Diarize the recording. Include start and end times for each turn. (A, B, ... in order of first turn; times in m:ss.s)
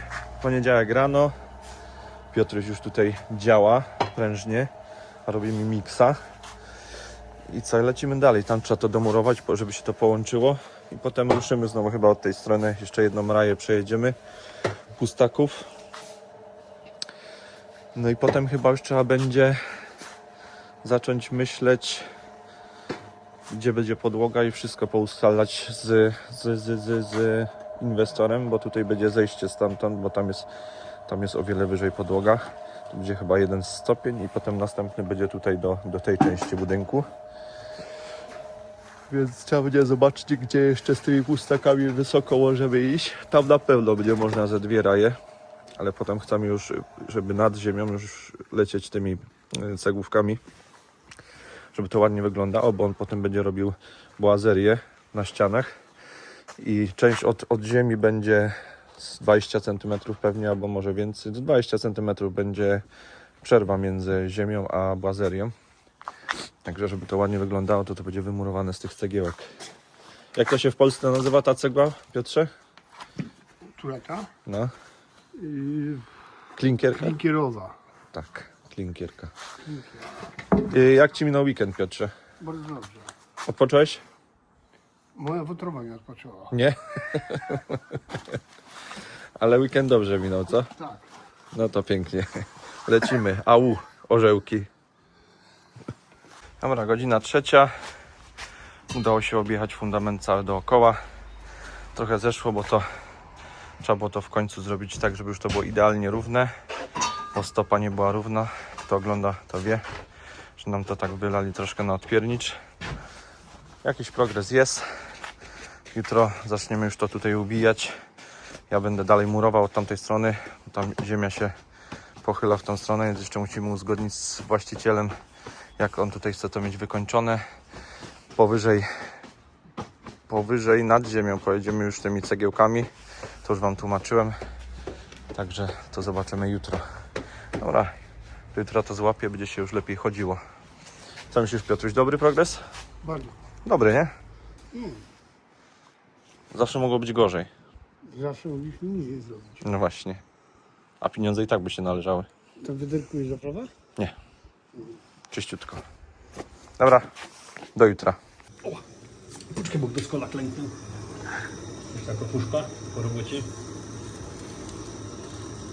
0:00.4-0:01.3 A
0:02.3-0:04.7 A
0:05.2-0:06.2 A
0:07.5-0:14.2 A
0:15.0-0:15.6 A
0:17.9-0:19.6 A
0:20.8-0:22.0 A
0:23.5-0:30.5 A
0:31.1-0:37.1 A
0:39.1-0:45.1 A
0:45.8-0:50.4 A
0:51.7-0:55.7 A
0:56.6-1:02.8 A
1:03.4-1:05.5 A
1:06.6-1:09.4 A
1:10.3-1:12.5 A
1:13.8-1:14.3 B
1:14.4-1:14.7 A
1:15.3-1:16.1 B
1:16.6-1:17.2 A
1:17.0-1:17.8 B
1:18.1-1:19.3 A
1:19.6-1:20.1 B
1:20.5-1:22.1 A
1:22.4-1:23.1 B
1:23.4-1:24.0 A
1:25.1-1:26.5 B
1:26.5-1:28.2 A
1:29.4-1:30.7 A
1:30.7-1:31.1 B
1:31.5-1:34.7 A
1:36.6-1:37.9 A
1:38.9-1:41.0 A
1:41.9-1:42.8 A
1:43.8-1:46.5 A
1:47.3-1:49.8 A
1:50.6-1:52.6 A
1:53.8-1:54.8 A
1:55.9-1:57.9 A
1:58.7-2:01.5 A
2:02.2-2:05.1 A
2:05.8-2:07.4 A
2:08.3-2:08.8 A
2:10.3-2:12.9 A
2:13.4-2:14.3 A
2:15.3-2:16.8 A
2:17.6-2:17.9 A
2:18.5-2:20.4 A
2:21.3-2:22.6 A
2:23.0-2:23.4 B
2:23.6-2:24.1 A
2:24.7-2:25.0 B
2:26.5-2:27.5 A
2:28.0-2:29.6 B
2:29.6-2:30.2 A
2:31.0-2:32.3 A
2:32.6-2:33.7 B
2:35.3-2:35.8 A
2:36.8-2:37.1 A
2:37.7-2:38.2 A
2:39.5-2:40.7 C
2:41.9-2:43.5 C